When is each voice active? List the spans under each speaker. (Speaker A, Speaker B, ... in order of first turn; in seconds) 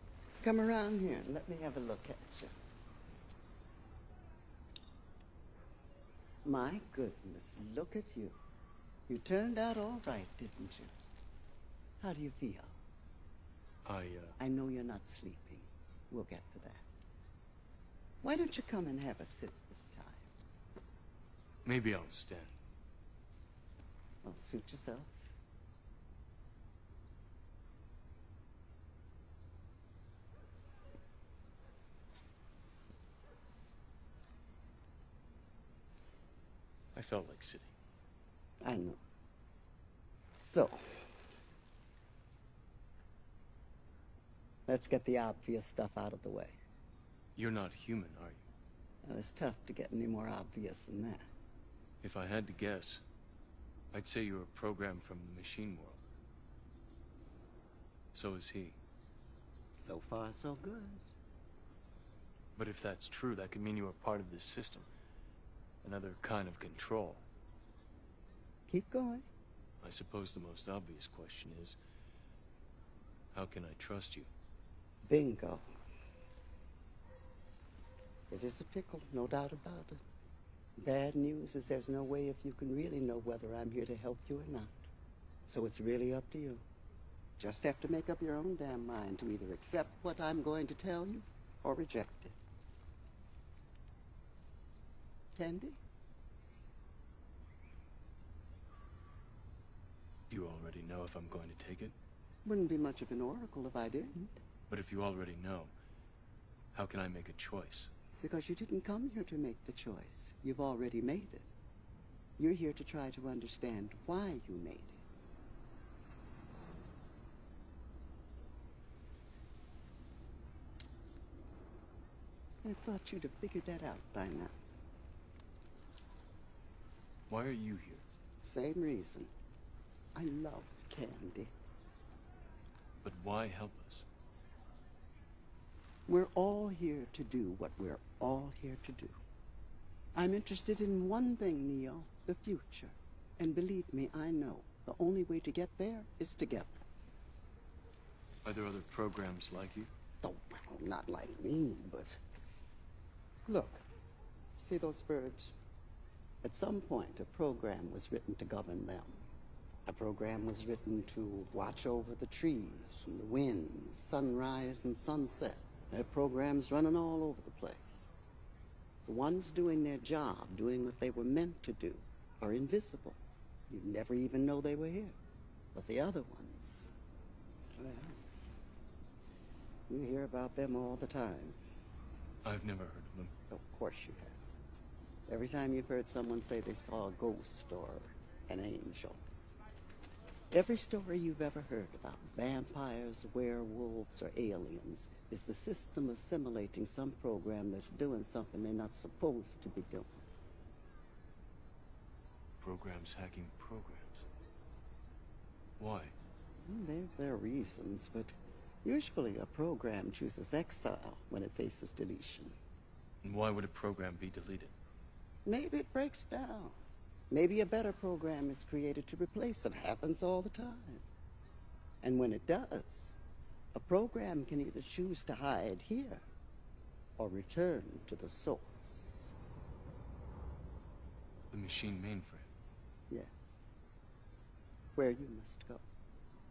Speaker A: 0.4-2.5, 6.4-8.4, 9.1-10.9, 12.0-12.8, 14.4-16.9, 18.2-20.4, 24.2-25.3, 38.6-39.0, 40.4-41.1, 44.7-46.6, 49.0-51.3, 59.7-61.0, 68.7-69.3, 75.1-75.7, 78.3-80.0, 80.8-84.8, 85.5-86.6, 87.4-92.4, 95.4-95.8, 102.5-104.3, 108.2-111.5, 112.4-115.0, 122.6-124.6, 128.4-129.3, 130.2-131.5, 136.1-139.2, 140.2-146.8, 150.2-152.2, 153.5-153.8, 154.6-155.5, 156.4-159.2, 159.9-168.1, 169.1-173.2, 173.7-175.2, 175.7-176.9, 177.8-178.2, 179.9-181.6, 183.5-184.4, 185.3-189.2, 190.5-200.2, 206.7-212.6, 215.5-216.8, 217.3-221.0, 222.0-223.2, 223.7-226.2, 227.2-229.3, 233.1-233.6, 235.0-235.8
Speaker B: 13.9-14.4, 21.6-22.5, 36.9-37.7, 47.4-48.5, 52.0-53.0, 53.9-56.0, 58.1-58.8, 62.6-64.9, 65.8-67.2, 69.8-71.8, 73.3-74.3, 100.3-102.0, 104.7-105.7, 106.7-107.9, 127.3-128.1, 133.0-134.1, 148.4-149.9, 182.4-183.3, 202.6-204.3, 205.8-206.2, 213.2-214.7, 231.5-232.5